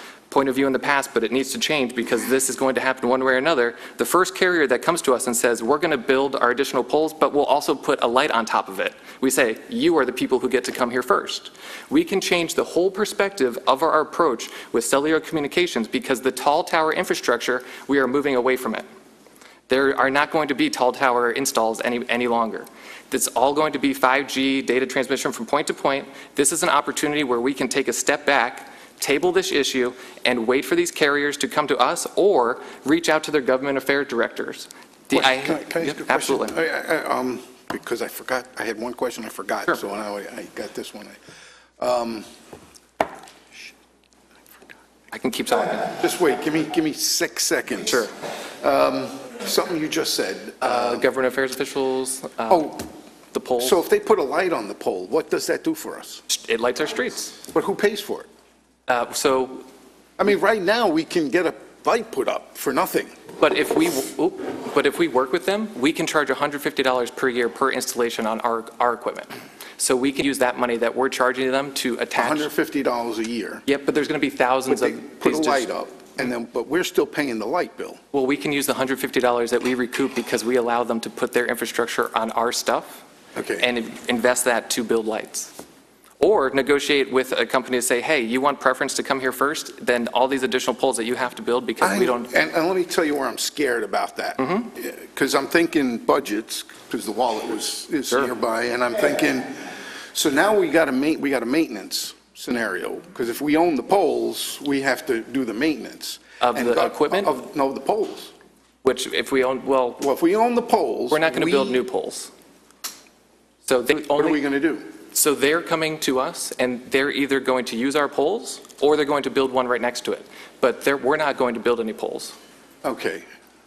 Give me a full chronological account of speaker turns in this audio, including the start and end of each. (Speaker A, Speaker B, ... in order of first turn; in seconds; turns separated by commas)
Speaker A: 0.3-18.8, Speaker A: 19.7-36.5, Speaker B: 35.1-41.2, Speaker B: 41.8-42.2, Speaker A: 45.1-45.9, Speaker B: 45.8-48.1, Speaker A: 47.9-48.1, Speaker B: 48.6-51.0, Speaker A: 50.6-53.8, Speaker B: 52.5-52.8, Speaker B: 53.6-56.2, Speaker A: 56.3-57.4, Speaker B: 57.5-58.3, Speaker A: 58.9-59.6, Speaker B: 60.2-63.2, Speaker A: 63.4-72.5, Speaker B: 72.2-73.6, Speaker A: 73.7-75.7, Speaker B: 74.7-78.0, Speaker A: 78.1-83.0, Speaker B: 83.3-83.7, Speaker A: 83.6-85.5, Speaker A: 86.2-92.3, Speaker B: 91.8-108.3, Speaker A: 106.4-107.3, Speaker A: 108.8-110.0, Speaker B: 110.0-111.8, Speaker A: 111.1-112.3, Speaker A: 113.6-114.4, Speaker B: 114.1-114.8, Speaker A: 115.1-122.3, Speaker B: 122.8-123.2